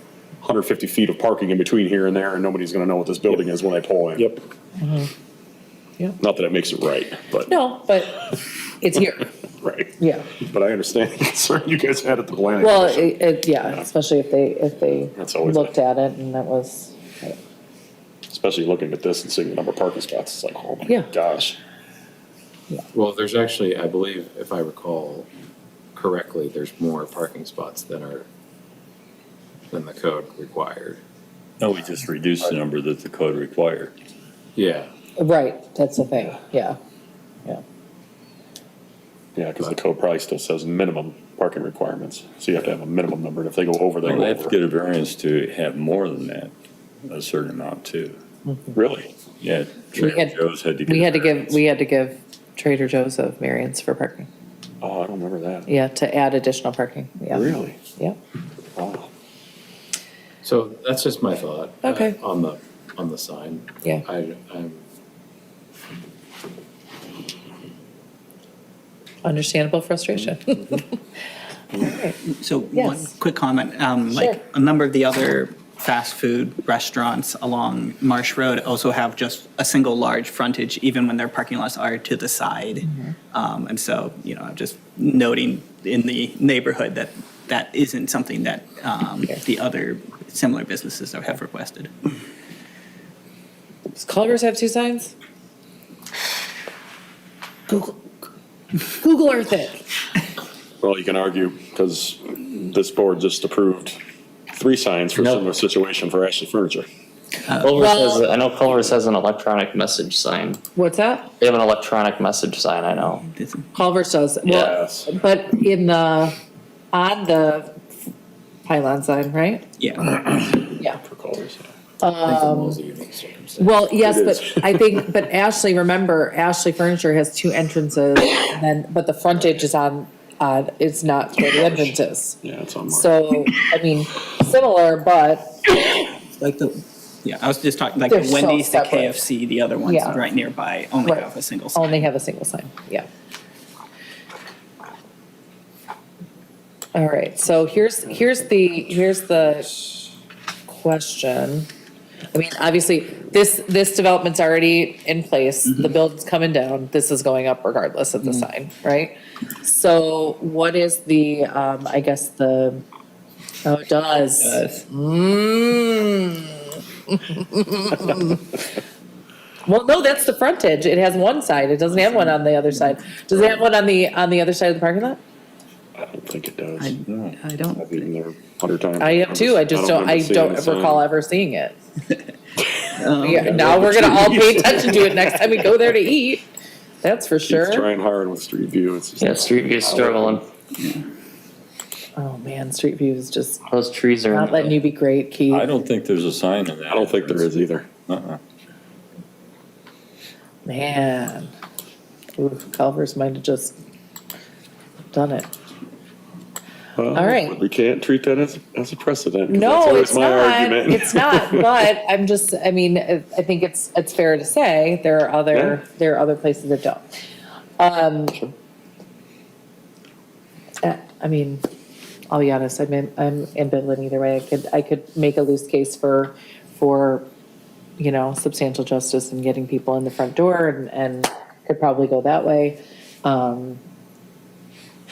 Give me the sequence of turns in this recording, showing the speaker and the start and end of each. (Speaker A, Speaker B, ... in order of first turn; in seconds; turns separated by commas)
Speaker A: 0.4-4.3, Speaker B: 4.8-5.1, Speaker A: 6.2-7.5, Speaker B: 7.5-9.3, Speaker A: 9.6-13.8, Speaker B: 10.0-10.4, Speaker B: 12.6-17.4, Speaker A: 15.2-15.7, Speaker A: 18.3-21.6, Speaker C: 22.9-25.3, Speaker C: 25.9-28.3, Speaker C: 29.7-31.0, Speaker D: 31.6-33.9, Speaker C: 34.6-34.9, Speaker B: 35.2-36.8, Speaker A: 39.4-44.5, Speaker D: 44.0-46.5, Speaker D: 47.1-48.2, Speaker B: 48.5-48.8, Speaker A: 48.8-49.1, Speaker D: 49.4-51.6, Speaker B: 49.9-50.4, Speaker B: 50.9-54.3, Speaker A: 54.8-55.7, Speaker B: 55.7-58.2, Speaker A: 57.3-57.8, Speaker A: 58.8-59.1, Speaker C: 60.4-64.8, Speaker B: 61.8-62.2, Speaker B: 69.2-70.9, Speaker B: 71.8-72.2, Speaker E: 72.3-91.9, Speaker B: 72.7-73.1, Speaker B: 74.1-74.4, Speaker B: 82.8-83.2, Speaker B: 94.0-95.1, Speaker B: 98.9-99.8, Speaker A: 100.8-104.0, Speaker A: 104.5-106.9, Speaker E: 107.5-107.9, Speaker F: 107.6-110.6, Speaker B: 107.8-108.2, Speaker B: 110.8-111.3, Speaker F: 111.4-113.2, Speaker E: 113.3-113.7, Speaker B: 113.7-116.3, Speaker A: 114.5-115.1, Speaker B: 116.9-117.8, Speaker B: 118.7-119.7, Speaker E: 119.8-120.3, Speaker A: 121.0-121.7, Speaker B: 122.0-122.8, Speaker C: 122.2-123.9, Speaker B: 123.6-135.6, Speaker A: 124.0-125.1, Speaker A: 132.4-133.1, Speaker E: 136.4-142.1, Speaker B: 138.1-139.2, Speaker B: 139.8-140.2, Speaker B: 141.0-143.1, Speaker B: 146.9-149.8, Speaker B: 150.7-151.7, Speaker B: 152.3-162.8, Speaker E: 155.7-155.9, Speaker B: 163.7-168.5, Speaker E: 164.4-164.8, Speaker B: 169.7-175.2, Speaker A: 173.3-173.6, Speaker A: 176.0-177.0, Speaker E: 176.8-178.1, Speaker D: 177.1-177.4, Speaker A: 177.7-181.0, Speaker B: 179.0-181.8, Speaker E: 183.0-184.5, Speaker B: 183.2-186.4, Speaker A: 183.2-185.2, Speaker B: 187.0-187.9, Speaker A: 187.5-190.4, Speaker F: 189.2-190.4, Speaker B: 192.2-193.6, Speaker F: 193.7-194.8, Speaker B: 194.3-195.7, Speaker D: 195.5-198.4, Speaker A: 196.9-197.9, Speaker B: 200.7-201.5, Speaker B: 202.4-203.8, Speaker B: 205.1-205.5, Speaker A: 207.0-211.7, Speaker B: 207.1-207.6, Speaker B: 209.5-217.0, Speaker B: 217.8-218.4, Speaker B: 220.8-221.6, Speaker B: 222.3-227.3, Speaker B: 228.0-233.8